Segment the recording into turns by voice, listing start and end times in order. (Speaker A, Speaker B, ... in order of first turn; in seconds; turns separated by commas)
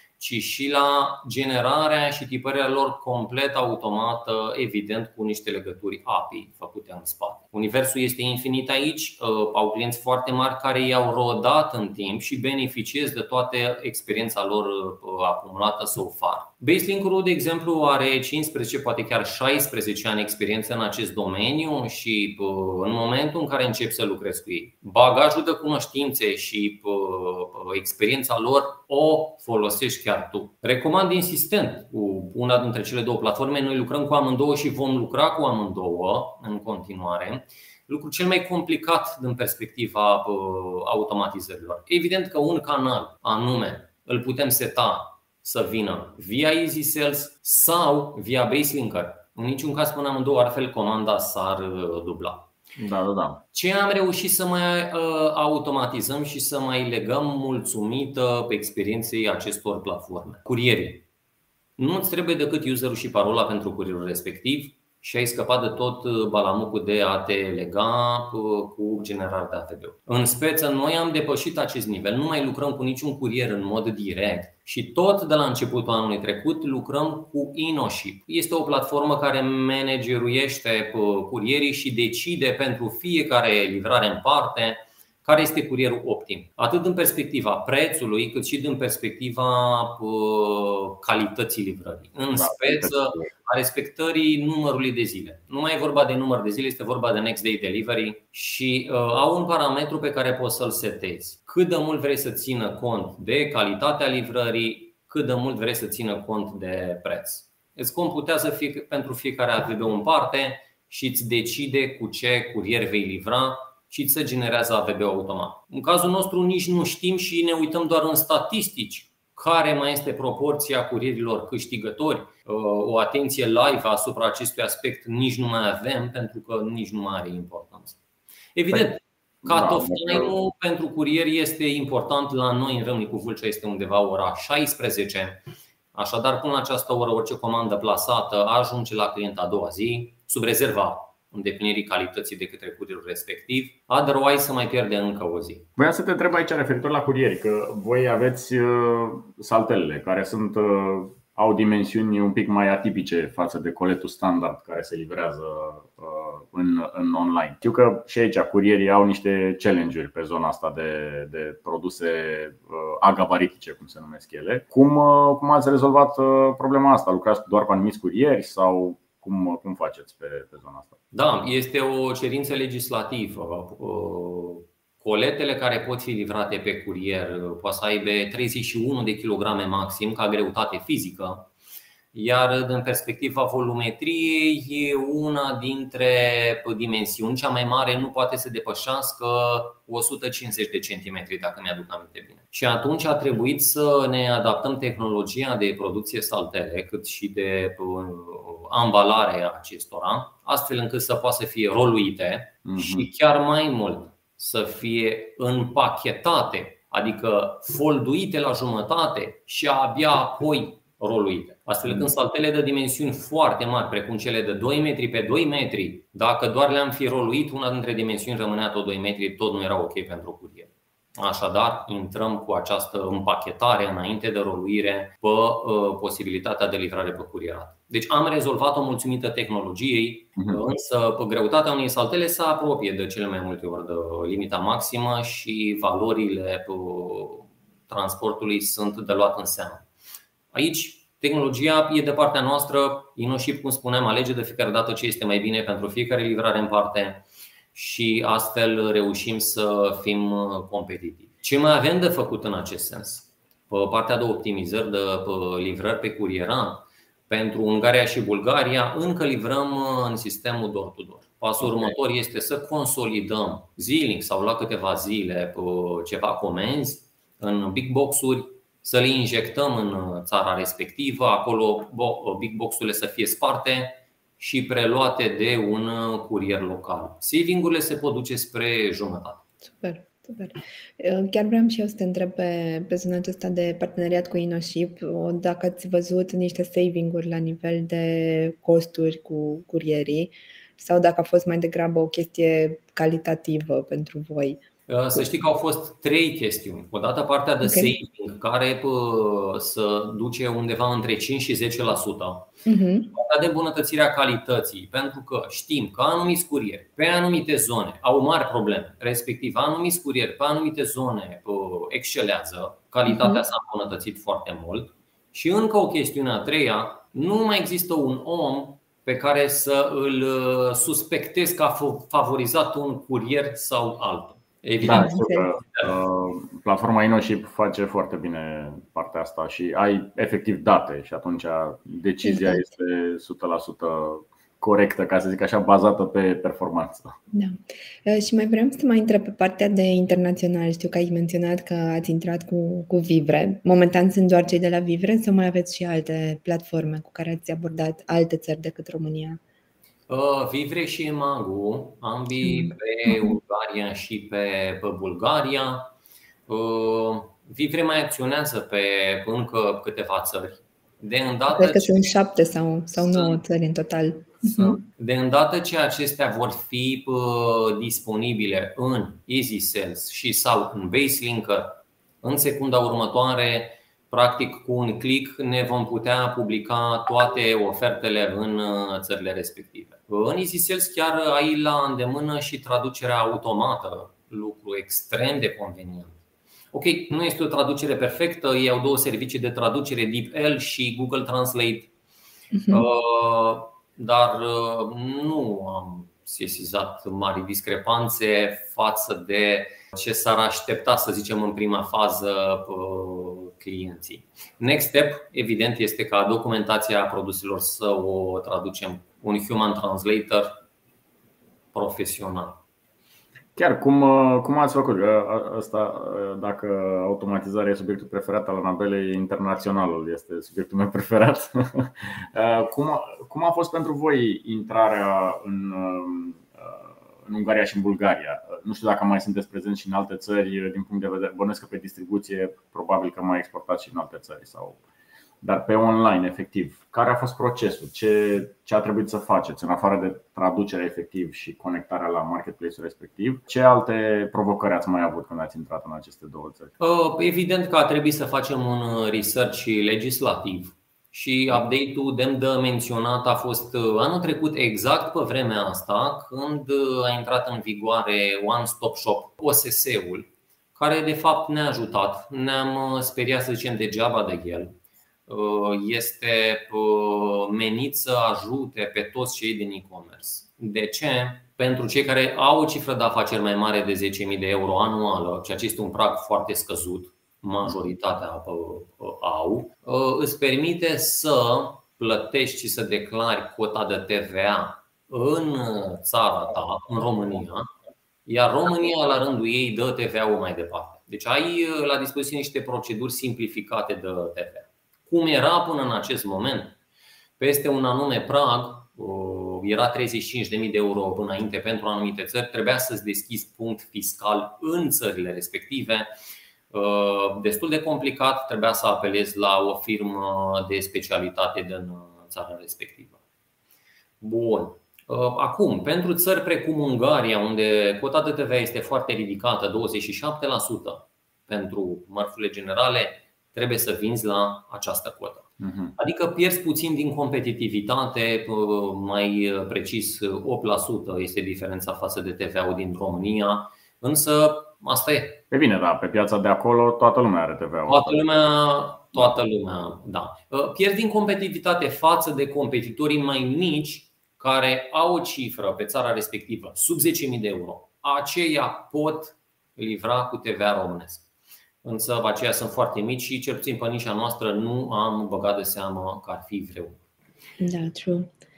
Speaker A: 0.2-52.5, Speaker B: 52.8-53.4, Speaker A: 53.5-61.0, Speaker A: 61.8-128.0, Speaker B: 92.3-93.3, Speaker A: 128.6-145.7, Speaker B: 129.4-130.3, Speaker B: 145.8-170.9, Speaker A: 171.1-181.5, Speaker A: 182.1-239.9, Speaker B: 202.7-203.1, Speaker A: 240.5-279.4, Speaker C: 279.7-294.6, Speaker A: 294.9-302.5, Speaker C: 297.6-297.9, Speaker C: 302.7-303.1, Speaker A: 303.1-325.9, Speaker C: 313.1-313.4, Speaker B: 324.8-337.1, Speaker C: 324.9-325.5, Speaker C: 332.2-332.7, Speaker C: 337.3-349.4, Speaker A: 350.1-355.9, Speaker C: 352.4-353.4, Speaker A: 356.5-362.0, Speaker C: 361.5-364.8, Speaker A: 363.0-363.4, Speaker A: 364.5-386.2, Speaker A: 386.7-391.9, Speaker C: 392.5-392.9, Speaker A: 392.7-410.6, Speaker A: 411.7-412.6, Speaker B: 413.6-434.8, Speaker B: 435.4-446.7, Speaker A: 446.8-464.8, Speaker A: 465.3-487.7, Speaker A: 488.3-496.8, Speaker A: 497.4-506.1, Speaker A: 506.7-513.2, Speaker A: 514.2-535.4, Speaker B: 525.6-525.9, Speaker B: 535.5-538.2, Speaker A: 537.9-551.2, Speaker A: 551.8-557.0, Speaker C: 557.6-558.3